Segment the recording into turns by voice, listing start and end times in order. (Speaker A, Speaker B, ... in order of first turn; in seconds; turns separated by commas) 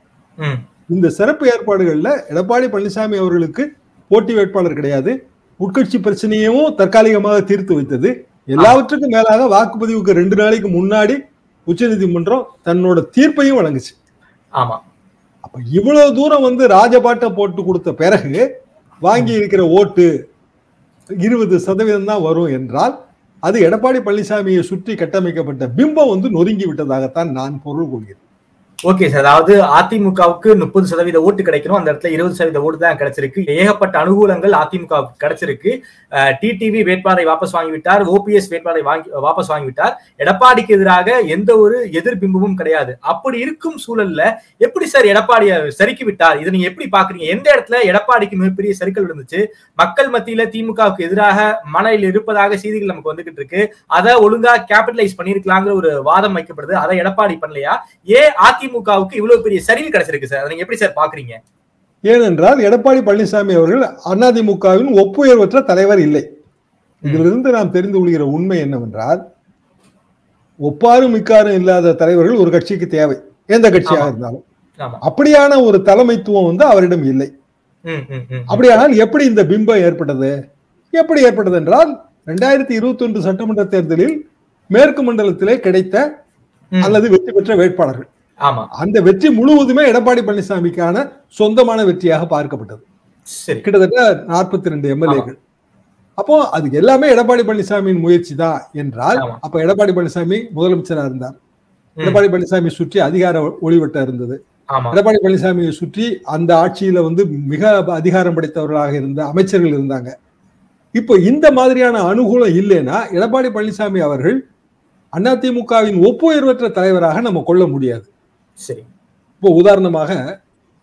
Speaker A: 0.9-13.9, Speaker A: 15.4-18.4, Speaker A: 19.0-20.1, Speaker A: 21.2-22.9, Speaker A: 23.4-28.2, Speaker B: 28.9-61.4, Speaker A: 62.1-66.2, Speaker A: 67.0-69.2, Speaker A: 70.7-74.4, Speaker A: 75.0-77.3, Speaker B: 77.9-78.7, Speaker A: 78.5-80.3, Speaker A: 80.9-84.1, Speaker A: 84.7-86.0, Speaker B: 86.7-87.0, Speaker A: 86.8-88.1, Speaker B: 88.4-88.7, Speaker A: 88.7-92.8, Speaker B: 93.3-93.7, Speaker A: 93.6-95.4, Speaker A: 96.2-101.4, Speaker B: 102.0-102.2, Speaker A: 102.0-104.4, Speaker B: 104.7-105.0, Speaker A: 104.9-110.1, Speaker A: 111.0-114.4, Speaker A: 115.2-118.1, Speaker B: 118.6-118.9, Speaker A: 119.4-120.2